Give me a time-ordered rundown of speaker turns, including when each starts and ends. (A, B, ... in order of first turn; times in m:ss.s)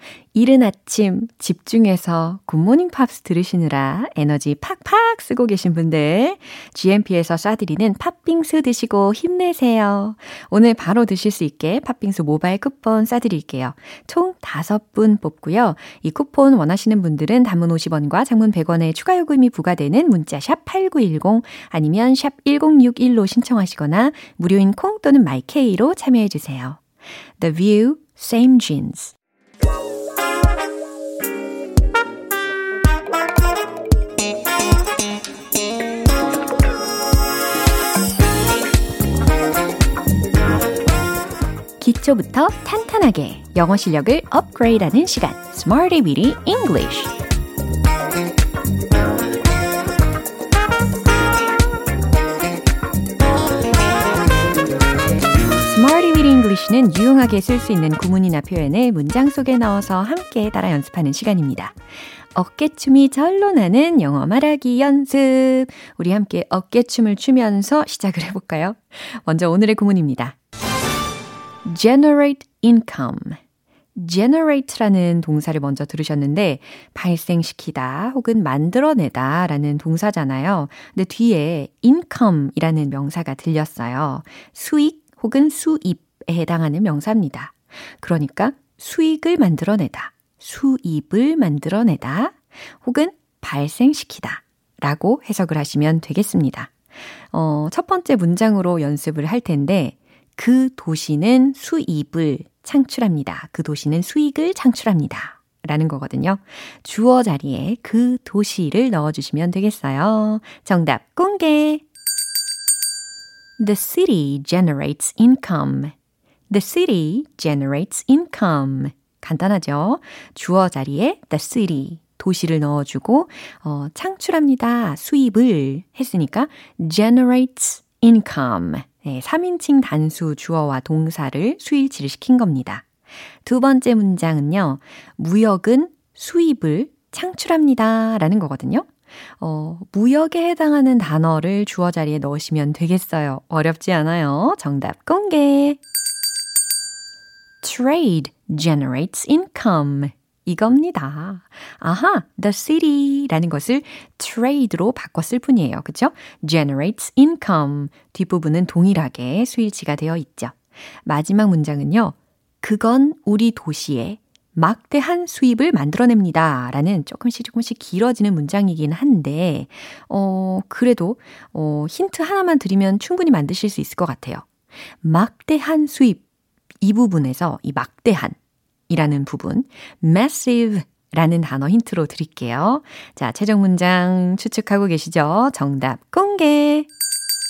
0:00.3-0:26.8 A
0:27.4-0:29.1 A
0:41.8-0:47.1 A
0:55.6-1:01.7 A
1:02.3-1:10.4 A
1:11.6-1:13.4 A
1:13.9-1:36.7 A
1:37.3-1:51.8 A
1:53.6-1:55.9 A
1:56.5-2:12.8 A
2:13.4-2:18.9 A
2:19.4-2:25.8 A
2:27.6-2:54.4 A
2:55.0-2:56.2 A
2:56.8-2:58.4 A
2:58.9-3:06.9 A